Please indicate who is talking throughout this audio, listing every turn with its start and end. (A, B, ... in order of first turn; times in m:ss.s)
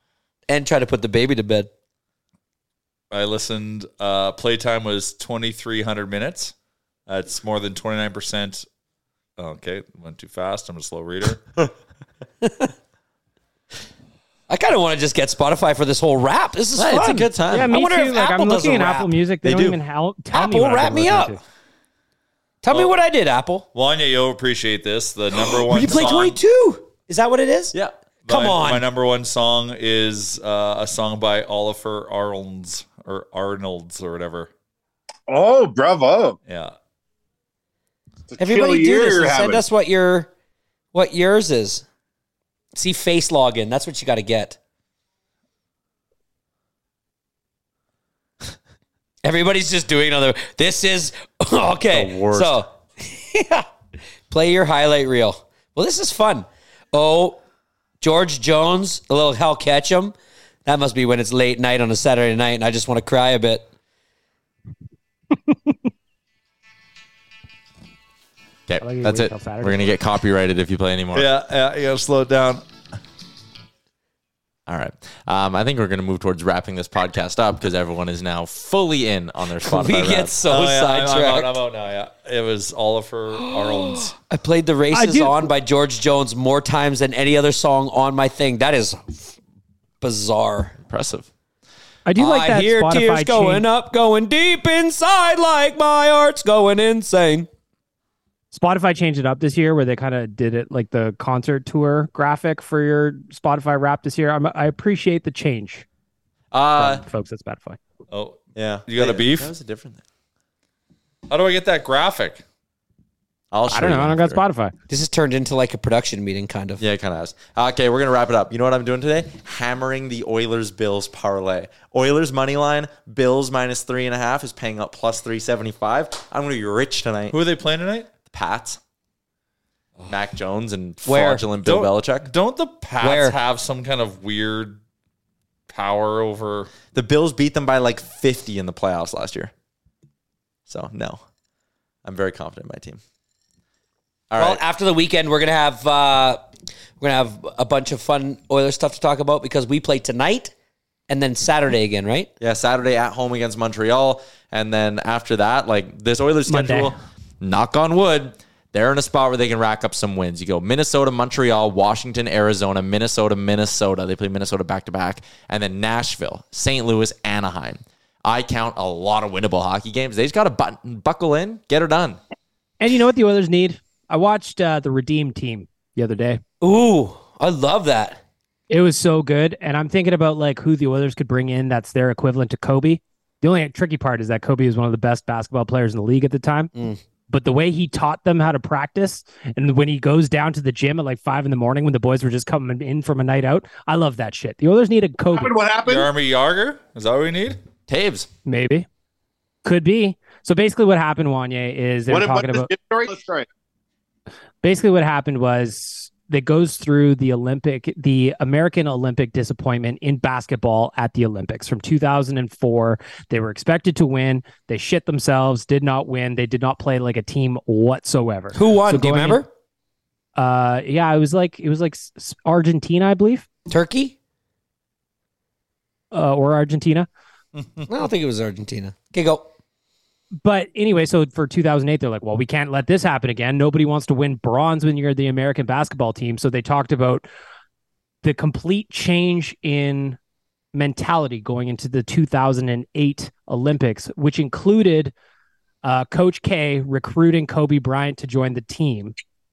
0:00.5-0:01.7 A
0:03.1-0:06.5 B
0:07.1-0:08.6 B
0:09.4-0:11.5 B
0:12.4-0:12.7 A
0:14.5-0:19.2 A
0:16.8-0:17.7 C
0:17.5-0:21.4 D
0:19.4-0:19.8 C
0:20.3-0:21.4 A
0:22.6-0:23.6 A
0:23.7-0:26.4 B
0:25.3-0:27.7 A
0:28.2-0:34.5 B
0:28.3-0:28.8 A
0:35.3-0:36.4 E
0:36.5-0:36.7 B
0:38.3-0:39.6 E
0:38.4-0:40.3 A
0:40.9-0:41.8 A
0:42.7-0:44.6 A
0:49.2-0:53.7 A
0:51.9-0:52.7 C
0:54.3-0:57.4 A
0:58.0-1:00.1 A
1:00.6-1:03.6 A
1:08.7-1:11.3 C
1:08.8-1:09.9 D
1:11.1-1:12.6 B
1:14.7-1:20.4 C
1:19.6-1:21.5 A
1:20.4-1:24.1 B
1:23.4-1:29.3 A
1:24.9-1:25.4 D
1:30.0-1:30.7 A
1:30.9-1:31.3 C
1:32.0-1:33.6 D
1:32.2-1:37.5 A
1:38.5-1:45.8 D
1:46.5-1:47.0 C
1:46.8-1:47.8 D
1:48.1-1:49.5 B
1:48.5-1:50.0 C
1:51.3-1:52.4 B
1:53.5-1:54.4 C
1:53.7-1:54.7 D
1:54.9-1:56.8 A
1:56.8-2:07.4 C
2:07.3-2:08.1 B
2:08.3-2:08.8 C
2:10.1-2:12.3 C
2:11.0-2:11.4 A
2:11.6-2:14.8 B
2:13.0-2:13.4 A
2:15.7-2:16.7 B
2:16.9-2:19.5 C
2:20.7-2:21.2 C
2:22.0-2:23.0 C
2:24.3-2:24.6 C
2:24.4-2:26.4 A
2:27.0-2:30.5 A
2:31.1-2:32.3 A
2:32.4-2:52.2 C
2:36.5-2:36.9 D
2:52.8-2:56.4 D
2:56.6-2:58.2 A
2:58.7-3:06.7 D
3:07.3-3:15.6 D
3:15.3-3:16.1 E
3:15.8-3:17.6 B
3:17.9-3:18.3 C
3:18.4-3:18.8 D
3:19.6-3:22.7 D
3:22.1-3:23.5 E
3:24.6-3:39.5 D
3:38.5-3:39.5 A
3:40.4-3:43.5 D
3:43.7-3:44.1 A
3:46.1-3:47.1 D
3:47.9-3:49.5 A
3:50.4-3:57.3 D
3:58.2-4:00.2 D
4:00.7-4:05.1 D
4:05.8-4:09.1 D